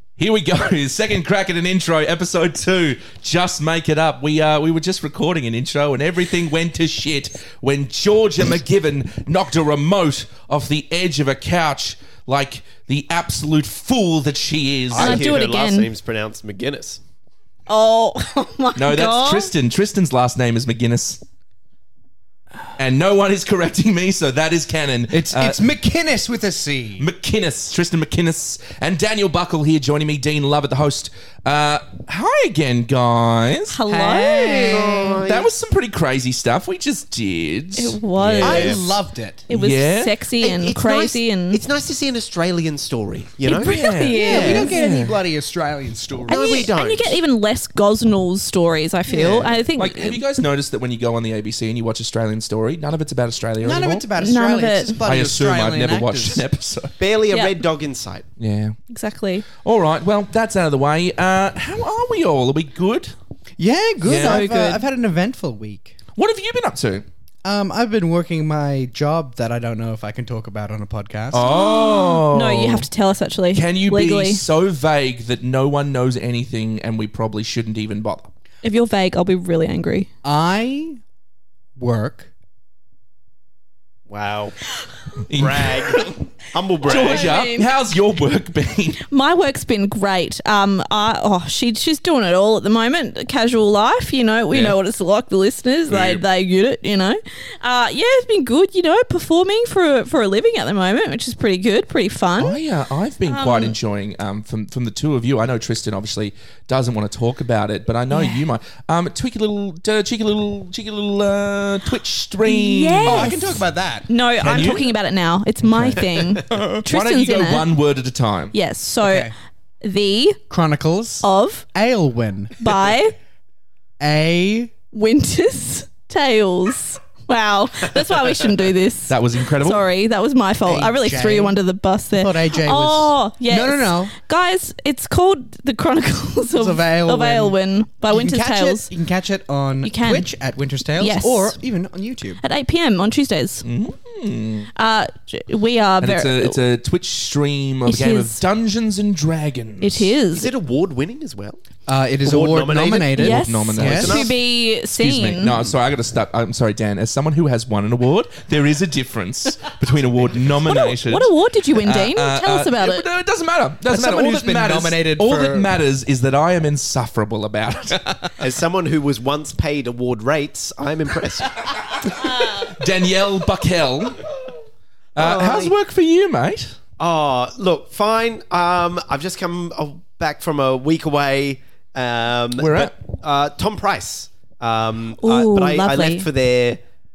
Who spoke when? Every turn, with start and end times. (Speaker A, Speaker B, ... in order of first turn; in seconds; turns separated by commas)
Speaker A: 0.2-15.2, Speaker B: 14.9-17.0, Speaker C: 14.9-15.9, Speaker C: 17.7-19.5, Speaker A: 18.8-21.2, Speaker A: 22.8-25.6, Speaker D: 25.1-27.1, Speaker A: 27.0-33.8, Speaker C: 33.7-35.0, Speaker B: 34.3-35.5, Speaker A: 35.1-38.8, Speaker C: 37.8-38.8, Speaker B: 38.4-38.8, Speaker D: 38.4-39.5, Speaker C: 39.5-41.6, Speaker A: 39.5-40.1, Speaker B: 40.4-44.7, Speaker C: 43.4-45.0, Speaker A: 43.5-45.1, Speaker D: 44.2-46.7, Speaker B: 46.3-47.2, Speaker C: 46.3-50.2, Speaker D: 49.1-49.5, Speaker A: 49.8-54.1, Speaker D: 53.6-56.4, Speaker C: 54.2-55.0, Speaker A: 55.0-56.9, Speaker B: 57.0-58.3, Speaker C: 57.3-57.5, Speaker A: 58.4-58.8, Speaker C: 58.9-59.4, Speaker A: 59.5-63.1, Speaker D: 63.6-66.0, Speaker A: 64.0-64.5, Speaker C: 64.1-64.8, Speaker A: 66.2-67.0, Speaker D: 67.4-71.5, Speaker A: 71.3-72.9, Speaker C: 71.4-74.4, Speaker A: 73.5-78.3, Speaker C: 78.6-80.1, Speaker D: 80.2-81.0, Speaker D: 81.8-82.3, Speaker B: 84.1-84.5, Speaker A: 85.3-86.1, Speaker B: 85.3-87.3, Speaker C: 86.8-87.7, Speaker A: 86.8-89.0, Speaker C: 89.0-102.6, Speaker A: 95.9-96.2, Speaker A: 102.4-113.4, Speaker C: 103.2-103.8, Speaker C: 108.1-108.5, Speaker C: 112.5-117.7, Speaker D: 113.0-114.1, Speaker A: 114.4-114.9, Speaker D: 115.6-116.8, Speaker A: 116.8-118.5, Speaker C: 118.5-119.3, Speaker D: 119.0-119.3, Speaker C: 119.8-120.4, Speaker D: 120.5-122.5, Speaker C: 121.2-121.6, Speaker C: 122.6-123.1, Speaker D: 124.0-124.7, Speaker C: 124.9-138.9, Speaker A: 129.1-129.8, Speaker D: 130.7-131.6, Speaker D: 132.1-134.1, Speaker D: 136.5-137.6, Speaker D: 138.1-142.4, Speaker C: 139.8-140.3, Speaker C: 141.0-141.6, Speaker C: 142.4-143.7, Speaker A: 143.6-144.7, Speaker C: 144.8-146.6, Speaker A: 146.0-150.1, Speaker C: 147.8-148.4, Speaker C: 149.8-150.5, Speaker B: 150.3-151.6, Speaker D: 151.9-154.2, Speaker B: 152.2-153.2, Speaker C: 153.2-155.6, Speaker A: 153.2-154.4, Speaker B: 153.8-154.3, Speaker A: 154.9-168.1, Speaker C: 160.7-163.1, Speaker D: 163.8-165.7, Speaker B: 168.4-172.2, Speaker C: 172.2-172.7, Speaker A: 172.5-174.2, Speaker A: 175.2-176.8, Speaker B: 175.2-175.7, Speaker B: 177.0-186.8, Speaker A: 182.6-182.9, Speaker C: 185.2-186.3